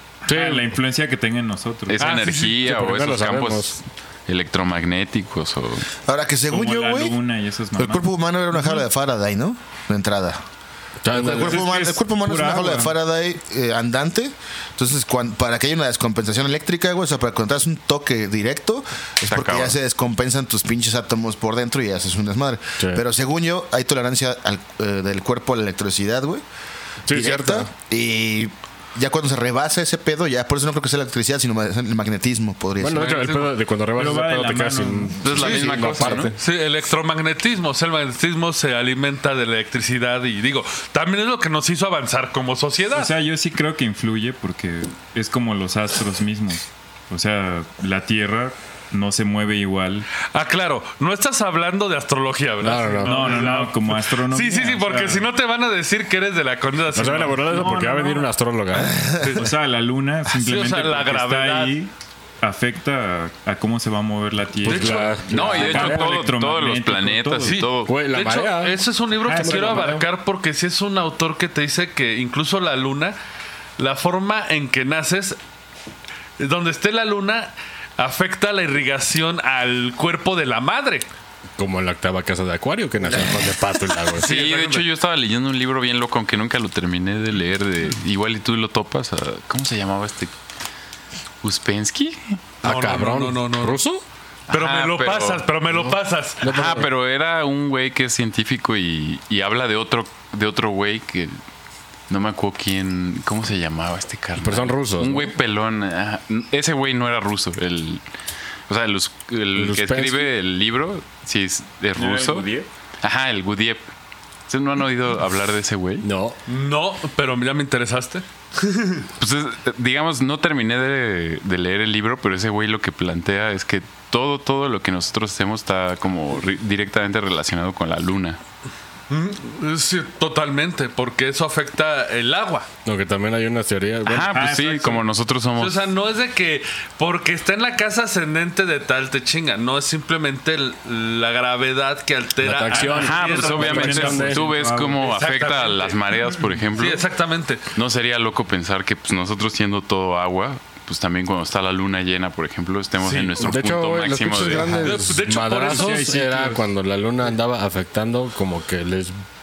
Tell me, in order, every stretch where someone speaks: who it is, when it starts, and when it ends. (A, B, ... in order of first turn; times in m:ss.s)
0:00.3-0:00.6 A
0:00.3-0:02.2 B
0:01.9-0:05.9 C
0:02.0-0:02.5 A
0:02.4-0:03.8 D
0:06.1-0:07.2 E
0:06.5-0:08.1 B
0:07.8-0:10.4 E
0:11.0-0:11.7 D
0:11.1-0:26.4 E
0:11.2-0:12.9 B
0:19.3-0:19.8 C
0:22.8-0:23.0 D
0:27.1-0:27.7 D
0:27.1-0:33.3 E
0:32.8-0:36.4 D
0:32.9-0:33.5 A
0:34.0-0:36.2 B
0:35.2-0:36.3 C
0:35.3-0:43.1 A
0:42.9-0:50.1 B
0:50.3-0:57.4 A
0:52.6-0:53.6 D
0:53.0-0:55.3 B
0:56.9-0:59.0 D
0:57.4-0:58.3 B
0:59.2-0:59.5 A
0:59.4-1:07.6 B
1:00.4-1:01.8 A
1:04.6-1:05.4 A
1:04.6-1:06.3 D
1:05.3-1:07.9 C
1:07.4-1:13.2 A
1:07.8-1:10.0 D
1:09.3-1:10.0 B
1:13.8-1:15.4 A
1:16.4-1:21.1 A
1:21.6-1:24.3 D
1:24.2-1:24.9 A
1:24.2-1:30.3 C
1:31.4-1:32.4 C
1:32.6-1:34.0 D
1:32.6-1:33.8 A
1:34.5-1:35.5 C
1:34.5-1:36.6 A
1:36.4-1:36.9 D
1:36.4-1:41.4 C
1:42.1-1:48.0 C
1:44.4-1:45.3 D
1:48.7-1:52.5 C
1:49.6-1:50.3 D
1:52.0-1:52.7 B
1:53.0-1:53.8 C
1:54.5-1:56.1 C
1:56.0-1:56.4 D
1:56.5-1:59.0 A
1:59.2-2:08.4 C
2:09.1-2:12.7 A
2:12.8-2:14.5 D
2:14.1-2:15.9 C
2:14.2-2:15.0 B
2:15.6-2:24.0 A
2:22.4-2:24.4 D
2:22.8-2:27.1 C
2:23.4-2:25.2 B
2:24.9-2:26.0 A
2:26.8-2:27.7 A
2:27.7-2:34.8 C
2:33.1-2:33.4 B
2:33.4-2:39.2 D
2:34.8-2:36.2 A
2:35.5-2:36.6 B